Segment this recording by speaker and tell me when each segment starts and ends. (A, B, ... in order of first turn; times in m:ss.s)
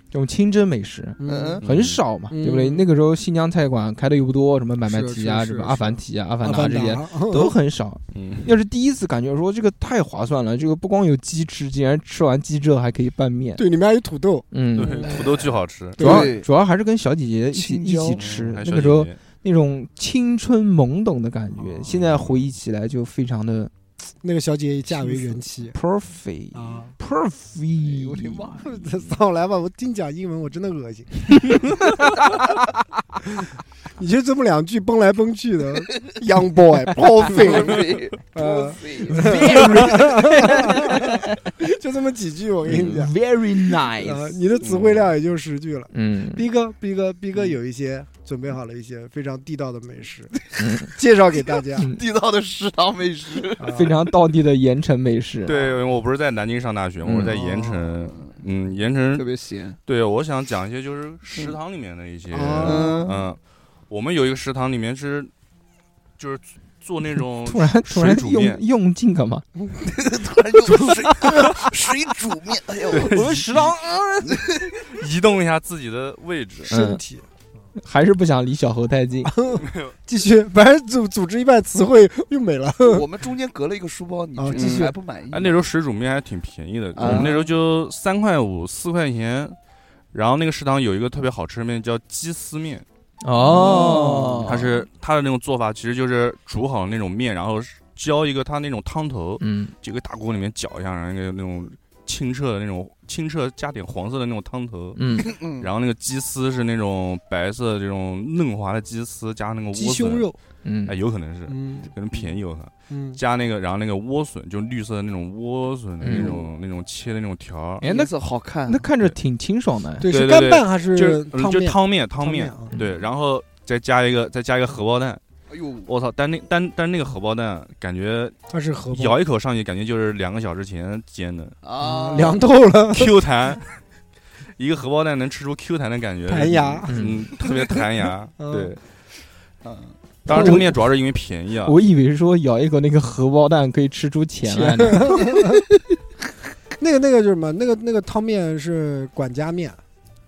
0:00.1-0:13.6 A
0:01.2-0:01.6 B
0:01.2-0:01.6 C
0:01.6-0:02.0 D
0:02.3-0:02.8 B
0:04.8-0:07.5 B
0:08.1-0:08.5 D
0:13.6-0:15.4 B
0:14.5-0:15.1 A
0:14.8-0:16.0 D
0:15.0-0:15.4 C
0:16.0-0:16.3 B
0:16.0-0:16.5 C
0:16.0-0:23.7 A
0:17.5-0:18.3 C
0:18.1-0:19.2 D
0:21.9-0:22.4 D
0:24.2-0:25.8 B
0:24.9-0:28.6 A
0:26.5-0:26.9 B
0:27.8-0:28.8 C
0:28.6-0:31.9 B
0:34.0-0:43.1 B
0:37.2-0:41.2 C
0:39.1-0:41.2 A
0:42.6-0:44.4 A
0:43.8-0:51.9 B
0:44.6-0:45.0 D
0:45.9-0:46.4 A
0:50.6-0:50.9 A
0:51.6-0:53.9 C
0:53.6-0:53.9 B
0:53.7-0:55.6 A
0:55.4-0:59.2 D
0:57.0-0:57.4 A
0:57.3-0:58.3 C
0:59.1-0:59.8 C
0:59.8-1:05.3 D
1:02.3-1:03.1 B
1:02.6-1:03.2 C
1:06.2-1:08.6 D
1:07.4-1:09.4 A
1:09.8-1:13.2 C
1:12.9-1:13.7 D
1:13.0-1:14.4 A
1:14.3-1:14.8 C
1:14.8-1:16.7 D
1:16.7-1:17.2 B
1:16.7-1:17.0 A
1:17.8-1:19.3 A
1:19.3-1:23.0 B
1:19.6-1:19.9 D
1:22.8-1:25.6 C
1:24.4-1:24.9 B
1:24.5-1:24.8 D
1:25.3-1:29.6 D
1:26.9-1:27.4 C
1:30.1-1:32.8 D
1:33.2-1:34.6 A
1:33.4-1:34.7 C
1:33.7-1:34.4 B
1:34.4-1:50.3 D
1:39.4-1:39.7 A
1:44.9-1:45.3 A
1:45.2-1:45.7 C
1:49.7-1:50.4 B
1:50.6-1:51.0 A
1:50.9-1:57.8 D
1:51.5-1:51.9 B
1:52.9-1:53.2 B
1:56.0-1:56.3 A
1:56.0-1:56.5 C
1:57.8-1:58.8 C
1:57.8-1:58.1 A
1:58.7-2:00.1 A
2:00.0-2:02.7 B
2:00.1-2:05.2 D
2:05.5-2:05.9 C
2:05.8-2:08.4 D
2:08.5-2:09.2 B
2:08.9-2:11.6 D
2:11.6-2:12.4 C
2:11.8-2:13.2 B
2:12.9-2:13.8 D
2:14.6-2:18.8 D
2:16.2-2:17.8 B
2:16.9-2:17.2 A
2:18.4-2:18.7 B
2:19.6-2:19.9 C
2:20.2-2:20.8 A
2:20.2-2:21.7 D
2:20.3-2:20.6 B
2:21.6-2:25.3 A
2:24.4-2:25.6 B
2:26.8-2:29.8 B